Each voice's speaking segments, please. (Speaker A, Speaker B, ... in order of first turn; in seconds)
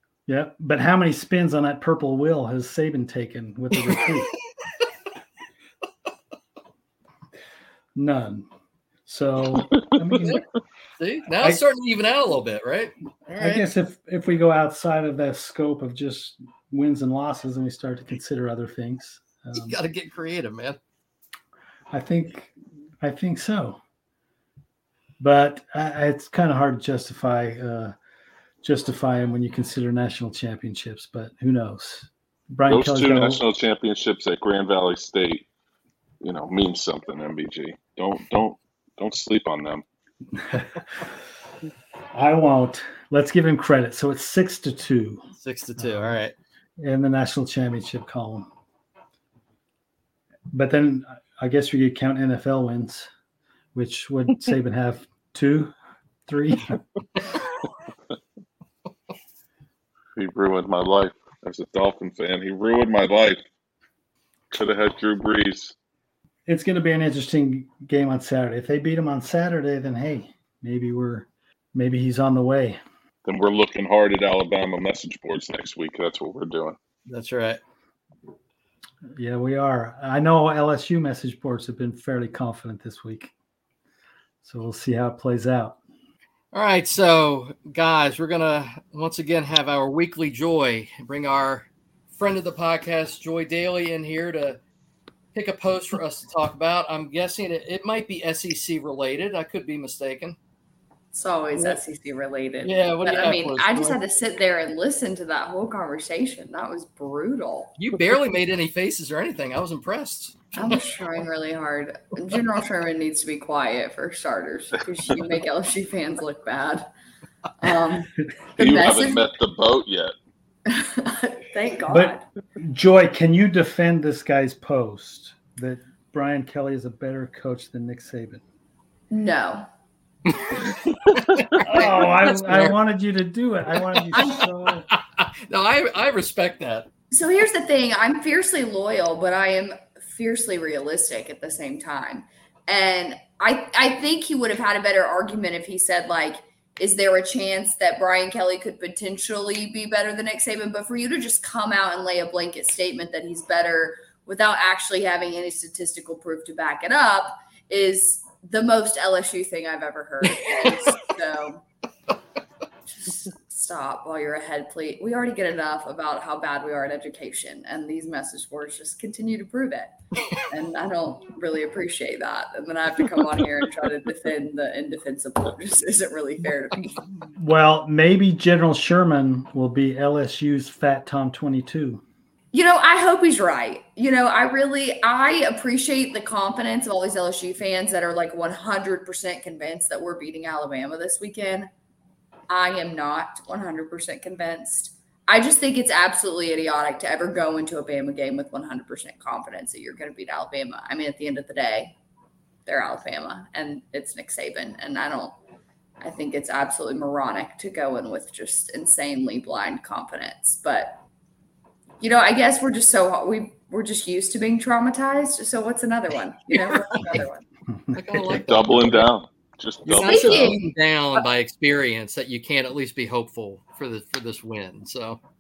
Speaker A: 0.3-4.3, 8.0-8.5, 9.1-10.4, 13.4-19.8, 21.9-23.8, 25.2-27.9, 28.6-33.4, 40.3-41.1, 42.1-45.2, 45.8-46.2, 46.8-48.5, 50.5-53.1, 53.7-55.7, 56.3-56.8, 66.5-72.8, 79.1-83.3, 84.4-85.8, 121.9-128.4, 131.6-134.9, 177.3-182.0, 218.1-218.4
Speaker B: 11.0-13.7, 19.5-20.8, 45.4-46.4, 77.1-77.6, 86.5-94.6, 95.3-100.4, 101.5-101.8, 102.6-104.0, 107.8-110.5, 130.3-132.8, 133.9-134.4, 134.9-136.9, 160.4-160.7, 216.5-217.0, 217.9-219.0, 219.9-225.2
Speaker C: 32.7-35.5, 36.2-39.9, 60.2-63.4, 64.5-65.7, 73.2-76.8, 118.6-120.1, 218.3-220.6
Speaker D: 101.1-107.7, 110.5-116.9, 117.6-119.3, 120.7-122.2, 129.1-129.7, 131.6-131.9, 137.1-161.6, 162.9-177.0, 182.5-191.7, 192.5-202.0, 202.7-205.4, 206.0-211.0, 212.0-217.4, 220.0-220.6